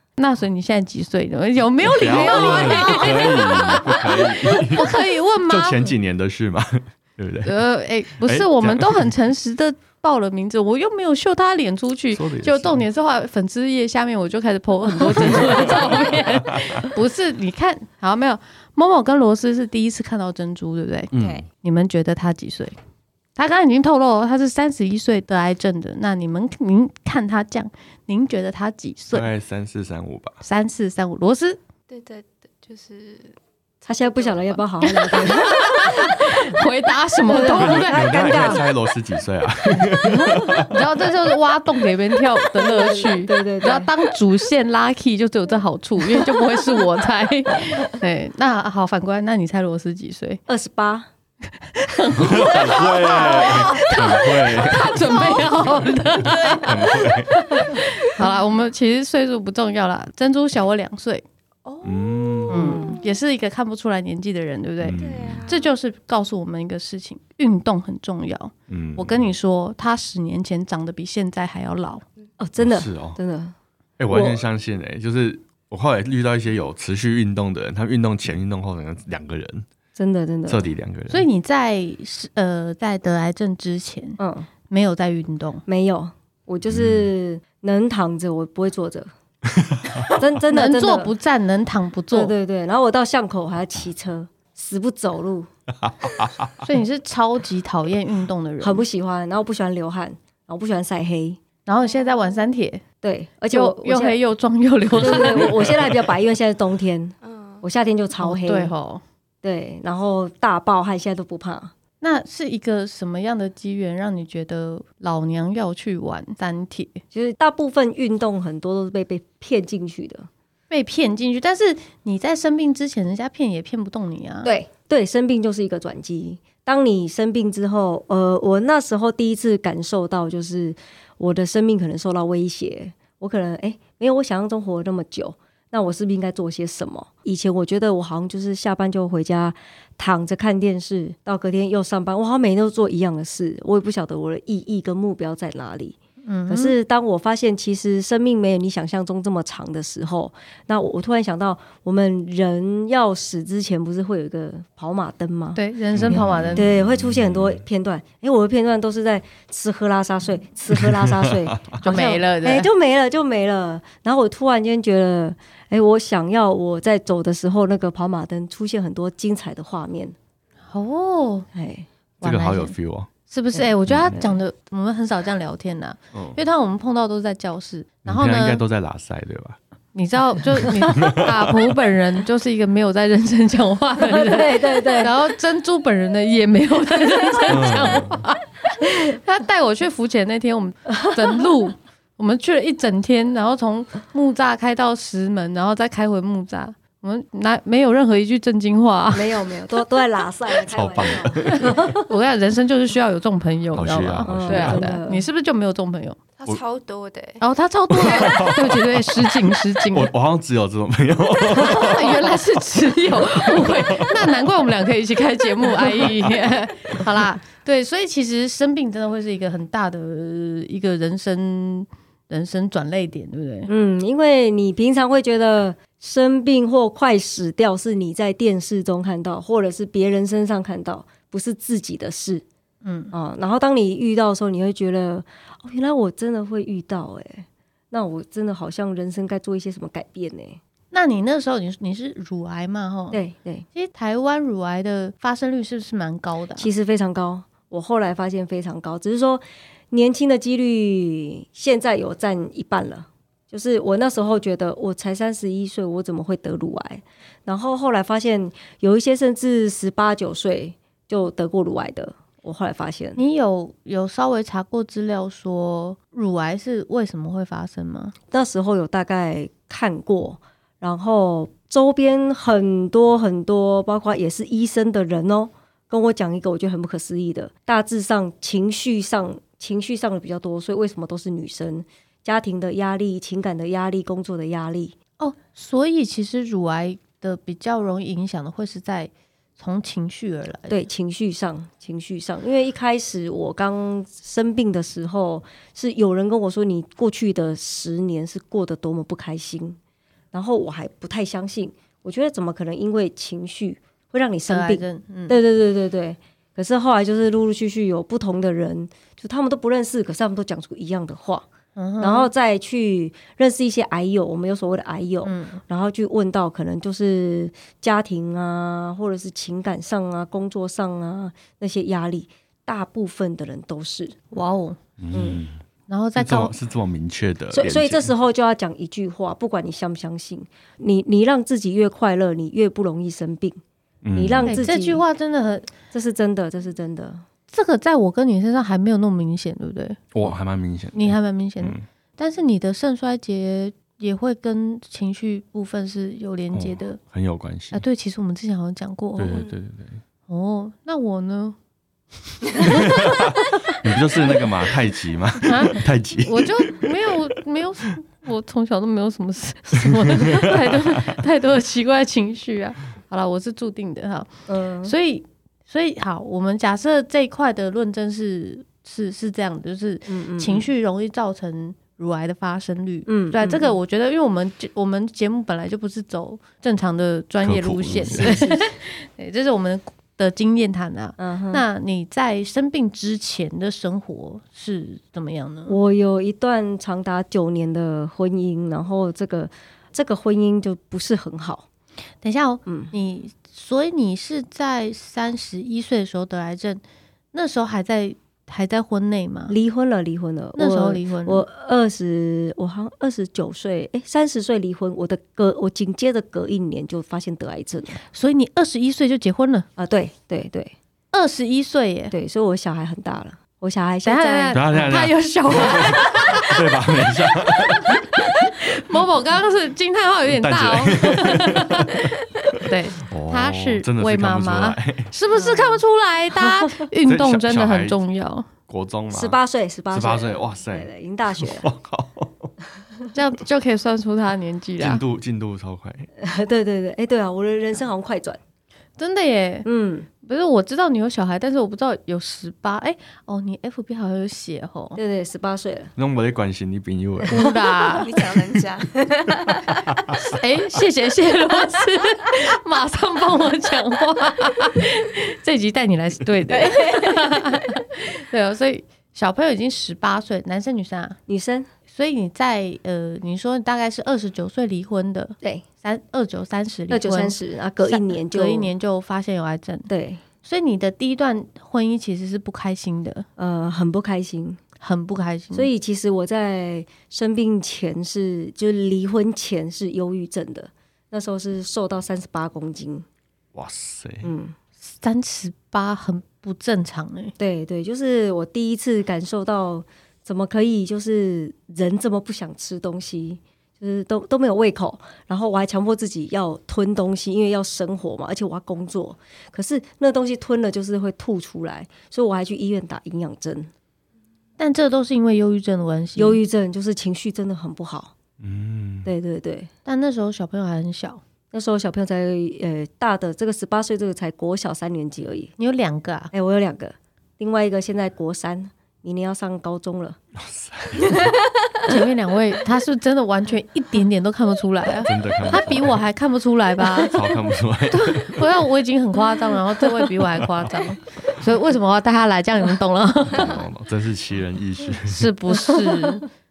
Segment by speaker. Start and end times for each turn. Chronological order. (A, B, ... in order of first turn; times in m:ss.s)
0:00.2-0:05.9 A
0:01.8-0:04.9 B
0:02.3-0:03.2 C
0:05.5-0:07.6 B
0:07.4-0:21.1 A
0:08.2-0:09.1 B
0:12.1-0:12.8 B
0:15.1-0:16.9 B
0:21.1-0:21.4 B
0:21.1-0:21.4 C
0:21.6-0:22.7 A
0:23.4-0:29.3 A
0:29.1-0:30.4 B
0:30.4-0:31.6 A
0:31.9-0:33.4 C
0:33.8-0:35.9 D
0:34.0-0:34.6 C
0:35.0-0:38.0 A
0:37.3-0:38.6 D
0:37.5-0:40.8 B
0:39.8-0:40.5 D
0:40.7-0:50.4 A
0:42.6-0:43.9 D
0:50.5-0:51.1 D
0:51.7-1:01.2 A
0:52.1-0:55.3 B
0:56.2-0:57.4 B
1:01.6-1:03.0 C
1:01.8-1:02.8 B
1:02.5-1:12.0 A
1:02.6-1:02.9 D
1:04.8-1:05.5 B
1:05.0-1:05.7 C
1:08.7-1:09.3 B
1:12.4-1:13.5 D
1:12.6-1:13.2 B
1:14.0-1:19.7 B
1:14.1-1:14.4 D
1:20.0-1:20.6 D
1:20.5-1:21.2 B
1:21.1-1:25.6 A
1:24.2-1:24.5 D
1:25.7-1:29.1 D
1:26.7-1:27.1 B
1:29.6-1:30.1 B
1:30.1-1:31.1 D
1:30.5-1:32.3 A
1:32.1-1:35.5 D
1:35.8-1:36.6 B
1:36.6-1:38.8 A
1:38.6-1:41.4 D
1:41.7-1:42.8 A
1:43.0-1:44.2 D
1:43.5-1:45.5 A
1:45.0-1:48.7 D
1:45.5-1:46.0 B
1:47.2-1:47.6 C
1:48.2-1:49.0 A
1:49.4-1:51.7 D
1:52.0-1:57.0 A
1:57.1-2:00.3 D
2:00.7-2:04.5 A
2:04.4-2:26.0 D
2:26.2-2:26.7 A
2:26.5-2:50.1 D
2:35.5-2:36.7 A
2:35.9-2:37.6 B
2:40.8-2:41.8 B
2:41.8-2:42.7 A
2:50.7-2:51.5 A
2:51.5-2:51.9 D
2:52.2-2:52.7 A
2:52.2-2:53.1 B
2:53.3-2:58.6 A
2:53.9-2:54.3 B
2:56.1-2:56.4 B
2:58.0-2:59.6 B
2:59.9-3:19.4 A
3:00.6-3:01.6 B
3:04.0-3:05.1 D
3:07.5-3:08.2 B
3:10.9-3:11.4 D
3:19.1-3:22.0 D
3:20.7-3:21.8 B
3:21.5-3:26.2 A
3:23.7-3:24.9 B
3:24.2-3:25.2 D
3:26.4-3:27.4 C
3:27.4-3:30.1 A
3:28.0-3:32.3 B
3:28.0-3:28.6 C
3:31.6-3:43.7 A
3:33.2-3:34.5 B
3:43.7-3:52.4 D
3:52.8-3:53.1 A
3:53.1-4:00.6 D
4:00.9-4:03.2 A
4:03.1-4:03.6 D
4:03.7-4:06.7 A
4:06.6-4:23.2 D
4:23.2-4:28.1 A
4:28.3-4:45.0 D
4:45.2-4:50.8 A
4:50.7-4:59.8 D
5:00.3-5:11.5 D
5:04.5-5:05.4 A
5:11.8-5:12.3 A
5:12.0-5:24.2 D
5:15.2-5:15.6 A
5:24.3-5:24.8 A
5:25.0-5:25.6 B
5:25.1-5:25.4 D
5:25.9-5:26.5 A
5:26.2-5:28.1 B
5:27.5-5:33.6 D
5:34.0-5:34.6 B
5:34.1-5:35.0 D
5:34.4-5:35.7 A
5:35.9-5:37.2 D
5:37.5-5:40.1 A
5:40.1-5:41.8 B
5:40.9-5:47.0 A
5:46.5-5:47.8 B
5:47.7-5:49.4 A
5:49.2-5:50.0 B
5:50.3-5:51.6 A
5:52.6-5:52.9 A
5:52.6-5:56.9 B
5:55.4-6:04.3 A
5:59.8-6:00.6 B
6:04.5-6:04.9 D
6:04.8-6:25.8 A
6:10.1-6:10.7 D
6:13.1-6:13.8 D
6:17.4-6:18.4 B
6:18.2-6:18.6 D
6:21.2-6:21.6 D
6:25.7-6:31.6 D
6:32.2-6:36.8 A
6:32.6-6:32.9 D
6:37.3-6:39.5 A
6:39.5-6:48.0 D
6:40.6-6:41.4 A
6:48.1-6:49.6 A
6:49.8-6:50.8 D
6:51.1-6:52.1 A
6:52.1-6:54.9 D
6:54.0-6:56.6 A
6:54.5-6:58.0 B
6:57.7-7:08.5 A
7:00.3-7:02.0 B
7:02.6-7:05.1 B
7:05.3-7:05.8 D
7:07.1-7:08.0 B
7:08.7-7:09.4 B
7:09.1-7:11.6 D
7:09.9-7:12.5 B
7:13.1-7:15.0 A
7:14.8-7:16.1 B
7:16.2-7:18.4 D
7:19.0-7:19.7 A
7:19.6-7:20.1 D
7:20.2-7:25.0 A
7:25.0-7:25.9 D
7:26.0-7:27.5 B
7:27.3-7:28.1 A
7:27.8-7:29.6 C
7:29.9-7:30.2 B
7:30.2-7:41.2 A
7:36.6-7:37.1 C
7:41.3-7:41.7 D
7:41.9-7:49.9 A
7:46.9-7:48.7 D
7:49.9-7:50.2 D
7:50.4-7:53.2 A
7:53.4-7:54.6 D
7:54.8-7:55.7 A
7:55.5-8:03.0 D
8:03.5-8:04.3 B
8:04.2-8:04.6 D
8:04.8-8:07.3 A
8:07.4-8:23.7 D
8:24.6-8:26.4 A
8:26.2-8:28.1 D
8:28.4-8:29.1 B
8:29.0-8:29.7 D
8:29.8-8:31.2 A
8:31.5-8:35.5 D
8:35.6-8:36.3 A
8:36.3-8:40.2 D
8:40.4-8:41.3 B
8:41.8-8:47.2 A
8:45.0-8:46.0 B
8:47.0-8:48.4 B
8:47.9-8:53.6 A
8:53.3-8:55.3 B
8:55.1-8:56.2 A
8:55.5-8:56.0 D